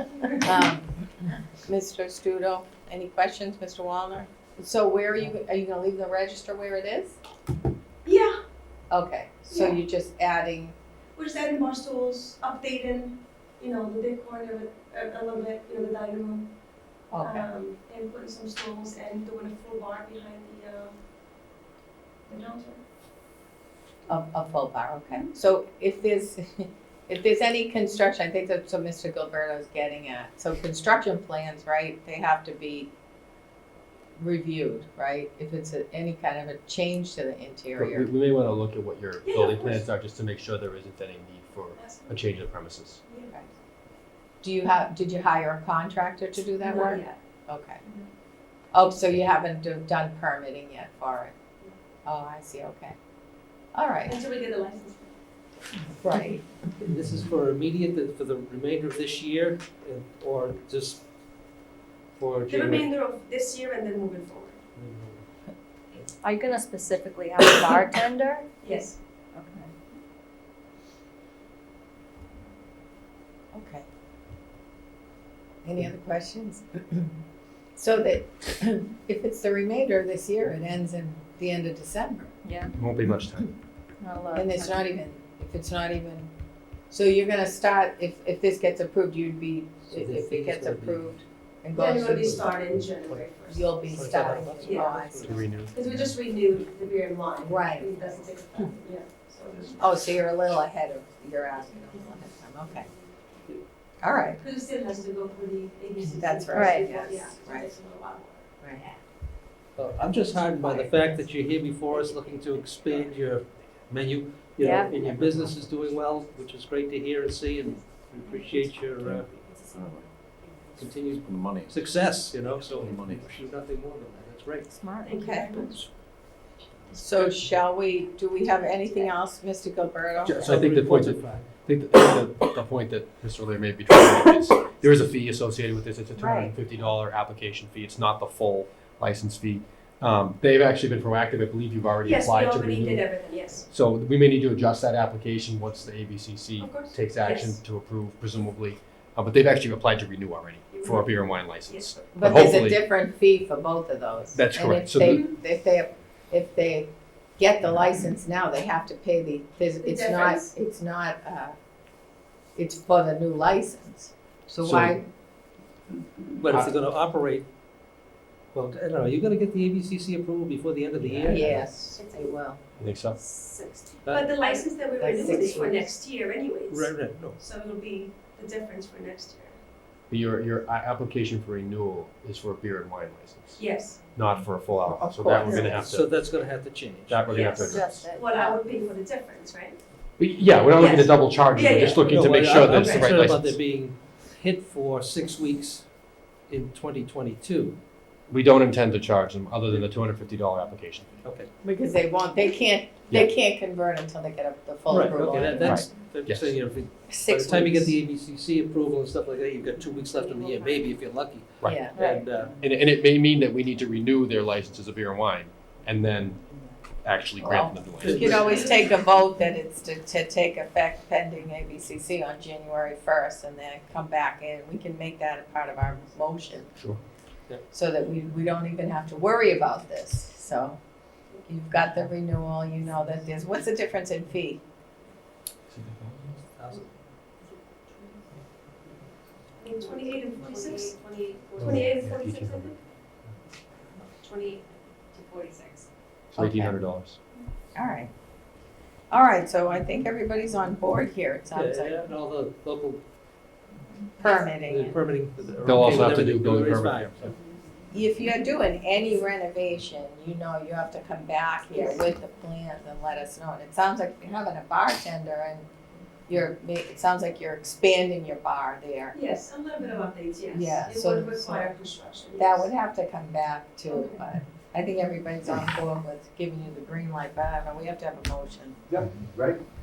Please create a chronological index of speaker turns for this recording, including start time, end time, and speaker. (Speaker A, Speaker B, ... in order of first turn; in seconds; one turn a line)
Speaker A: 0.3-7.2
Speaker B: 8.1-8.3
Speaker A: 8.9-10.8
Speaker B: 9.5-9.8
Speaker B: 11.2-16.5
Speaker A: 17.1-17.5
Speaker B: 17.2-21.0
Speaker B: 22.3-22.8
Speaker A: 24.1-32.9
Speaker A: 34.2-38.1
Speaker C: 37.8-43.0
Speaker B: 39.2-39.9
Speaker B: 41.8-42.2
Speaker B: 43.1-43.3
Speaker A: 44.4-47.8
Speaker B: 46.6-47.2
Speaker A: 48.7-51.3
Speaker A: 52.0-53.0
Speaker A: 53.7-54.2
Speaker B: 54.1-55.1
Speaker A: 56.0-56.4
Speaker D: 56.9-61.0
Speaker D: 62.2-62.9
Speaker B: 62.5-64.6
Speaker D: 64.8-65.2
Speaker E: 66.2-68.5
Speaker B: 68.6-69.0
Speaker E: 69.3-69.7
Speaker A: 73.5-73.9
Speaker A: 75.6-77.1
Speaker A: 77.8-82.3
Speaker E: 82.5-82.7
Speaker C: 82.8-83.5
Speaker E: 84.0-84.8
Speaker A: 84.3-86.3
Speaker A: 86.9-92.6
Speaker D: 89.9-91.1
Speaker B: 91.7-95.1
Speaker D: 92.1-92.5
Speaker A: 93.5-95.5
Speaker D: 93.9-95.5
Speaker C: 95.2-96.2
Speaker B: 95.7-100.0
Speaker A: 97.4-98.2
Speaker A: 99.8-102.9
Speaker A: 104.0-104.4
Speaker B: 104.4-108.5
Speaker A: 106.0-107.7
Speaker E: 106.5-106.9
Speaker A: 108.6-109.0
Speaker D: 109.8-119.3
Speaker E: 114.6-115.2
Speaker F: 115.0-115.4
Speaker F: 119.0-120.1
Speaker D: 120.8-124.8
Speaker F: 121.1-122.1
Speaker F: 122.7-123.5
Speaker E: 124.7-125.6
Speaker B: 125.0-125.8
Speaker A: 125.1-125.6
Speaker D: 125.6-125.9
Speaker A: 126.9-130.6
Speaker C: 130.2-152.8
Speaker D: 130.3-131.5
Speaker A: 136.2-136.6
Speaker B: 142.0-143.7
Speaker B: 146.6-147.6
Speaker B: 150.7-152.0
Speaker A: 152.2-161.6
Speaker C: 154.3-155.2
Speaker B: 159.8-160.5
Speaker A: 162.6-165.1
Speaker C: 164.6-165.0
Speaker D: 166.4-167.5
Speaker D: 168.5-171.5
Speaker C: 171.0-171.6
Speaker A: 171.3-172.6
Speaker B: 172.0-172.4
Speaker C: 172.8-173.2
Speaker B: 173.2-179.6
Speaker D: 174.1-174.4
Speaker A: 175.0-175.9
Speaker D: 176.7-177.4
Speaker C: 180.1-186.1
Speaker B: 183.6-184.0
Speaker A: 184.8-185.9
Speaker D: 185.8-187.3
Speaker C: 187.1-188.0
Speaker B: 187.3-189.8
Speaker E: 187.3-188.6
Speaker C: 190.2-193.6
Speaker B: 190.7-193.1
Speaker D: 192.0-197.8
Speaker C: 198.3-201.2
Speaker D: 201.2-201.5
Speaker A: 201.6-205.8
Speaker D: 204.9-212.6
Speaker C: 205.6-206.6
Speaker A: 207.1-208.0
Speaker C: 211.6-211.9
Speaker A: 211.6-212.1
Speaker E: 211.9-212.4
Speaker C: 212.6-218.6
Speaker A: 217.4-226.7
Speaker D: 218.0-218.8
Speaker A: 227.7-230.8
Speaker A: 231.4-234.6
Speaker C: 235.7-236.4
Speaker D: 236.6-236.8
Speaker B: 239.6-242.8
Speaker C: 241.6-242.7
Speaker B: 244.2-245.8
Speaker C: 246.3-247.2
Speaker A: 246.4-246.8
Speaker A: 247.7-248.1
Speaker A: 249.1-252.0
Speaker D: 251.5-253.0
Speaker A: 254.2-255.0
Speaker D: 254.6-257.3
Speaker C: 255.6-257.3
Speaker A: 257.9-265.7
Speaker A: 266.3-269.2
Speaker B: 269.1-272.7
Speaker A: 270.5-271.8
Speaker A: 272.4-278.8
Speaker B: 273.9-274.1
Speaker F: 278.9-279.6